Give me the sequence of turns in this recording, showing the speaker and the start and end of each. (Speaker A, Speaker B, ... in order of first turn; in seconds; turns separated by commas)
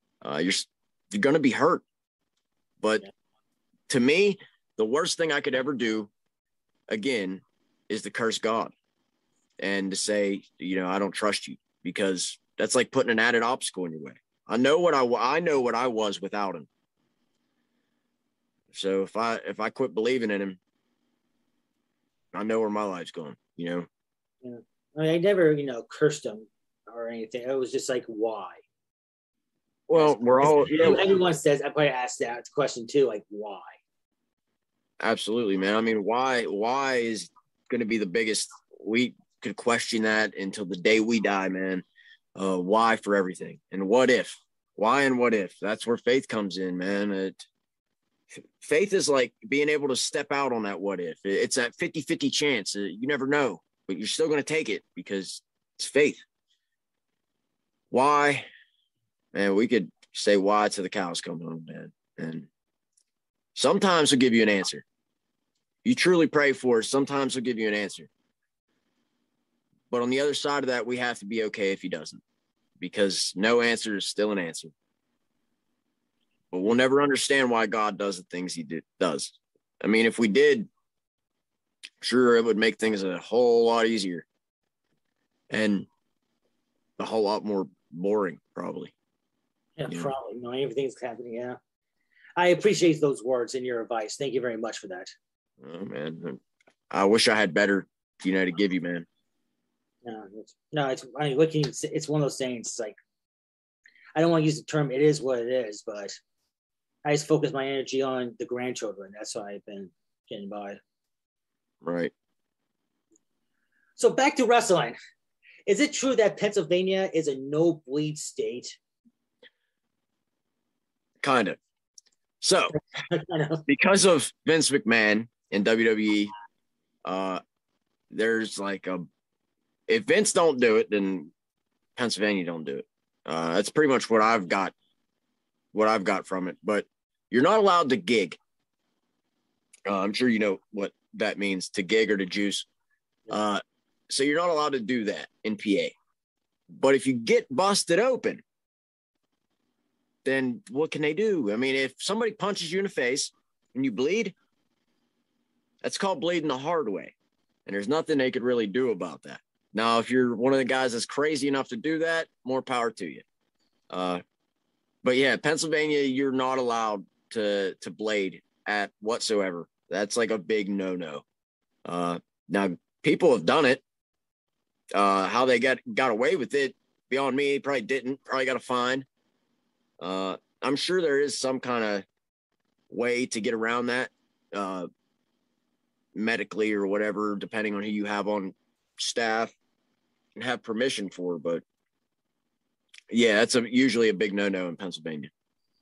Speaker A: 0.2-1.8, Speaker A: 3.9-6.1, Speaker A: 6.9-8.7, Speaker A: 9.6-16.7, Speaker A: 18.7-20.6, Speaker A: 22.3-23.9, Speaker B: 24.4-28.6, Speaker A: 29.9-31.0, Speaker B: 29.9-33.8, Speaker A: 35.0-41.8, Speaker A: 42.4-47.4, Speaker A: 48.3-56.2, Speaker A: 57.9-58.5, Speaker A: 59.3-62.5, Speaker A: 63.5-64.8, Speaker A: 65.8-68.1, Speaker A: 69.9-72.2, Speaker A: 72.8-74.7, Speaker A: 76.5-80.7, Speaker A: 82.0-84.2, Speaker A: 85.5-85.9, Speaker A: 87.0-88.9, Speaker B: 89.8-91.6, Speaker B: 92.4-95.1, Speaker A: 95.6-96.4, Speaker A: 96.9-99.1, Speaker B: 100.0-103.0, Speaker B: 104.2-106.2, Speaker B: 107.0-110.8, Speaker A: 111.8-112.1, Speaker B: 114.0-115.0, Speaker B: 115.7-118.8, Speaker A: 121.2-121.6, Speaker A: 122.4-122.7, Speaker B: 123.1-123.6, Speaker A: 123.7-126.3, Speaker A: 127.0-127.4, Speaker A: 128.1-129.0, Speaker A: 129.9-131.3, Speaker A: 131.9-134.7, Speaker A: 135.7-138.4, Speaker A: 139.9-142.7, Speaker A: 143.3-145.9, Speaker A: 146.7-148.4, Speaker A: 150.2-154.3, Speaker A: 155.8-157.1, Speaker A: 157.7-163.2, Speaker A: 163.9-164.2, Speaker A: 165.0-171.2, Speaker A: 171.8-173.8, Speaker A: 174.9-179.1, Speaker A: 180.0-182.1, Speaker A: 182.9-184.9, Speaker A: 186.1-189.5, Speaker A: 190.4-191.6, Speaker A: 193.1-195.3